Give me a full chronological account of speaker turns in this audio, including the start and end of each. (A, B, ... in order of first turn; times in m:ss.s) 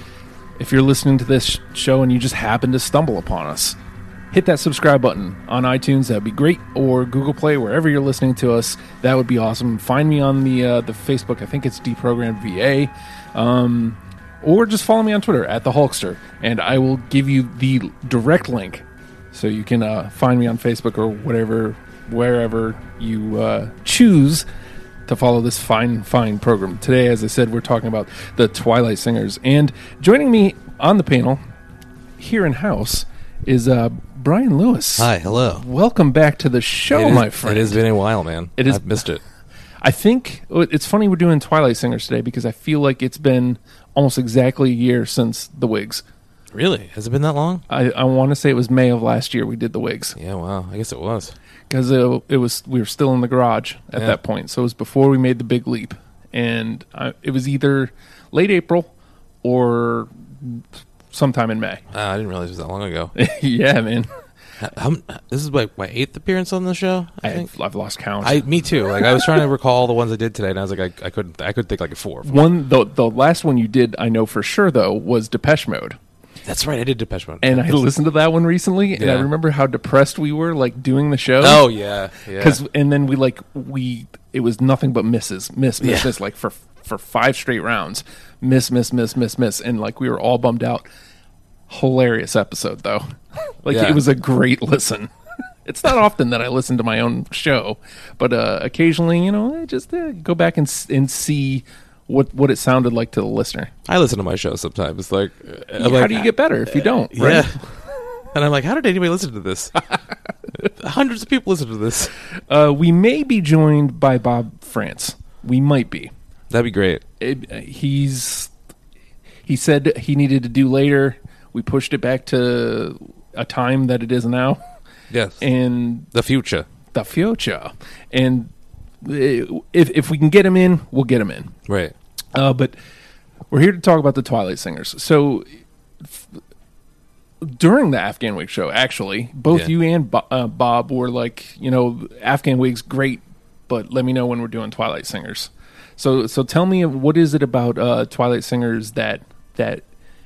0:00.6-0:03.8 A
0:04.3-0:24.4 A
0:25.1-0:31.4 A
0:32.2-0:37.8 A
0:35.0-0:35.6 B
0:36.9-0:39.2 B
0:38.6-0:39.0 A
0:39.8-0:46.0 A
0:46.5-0:47.6 B
0:47.7-0:50.2 A
0:50.2-0:51.4 B
0:51.7-0:58.9 A
0:59.4-1:01.8 A
1:01.9-1:03.1 B
1:03.1-1:04.1 A
1:04.6-1:07.5 B
1:07.2-1:08.4 A
1:08.2-1:12.4 B
1:12.2-1:16.0 A
1:16.4-1:17.6 B
1:17.4-1:21.7 A
1:18.9-1:19.3 B
1:21.4-1:22.6 B
1:22.2-1:30.8 A
1:25.8-1:26.1 B
1:31.7-1:35.1 A
1:33.7-1:34.0 B
1:35.6-1:43.7 A
1:43.8-1:47.7 B
1:45.8-1:47.6 A
1:48.3-1:49.8 B
1:50.5-1:52.1 B
1:52.5-1:56.1 A
1:56.5-1:57.0 B
1:57.2-1:58.5 A
1:59.4-2:04.6 A
2:05.1-2:05.4 B
2:05.4-2:06.1 A
2:06.1-2:06.7 B
2:06.9-2:08.5 A
2:09.0-2:11.6 A
2:11.7-2:11.9 B
2:12.3-2:12.7 A
2:13.5-2:16.4 A
2:17.4-2:29.8 A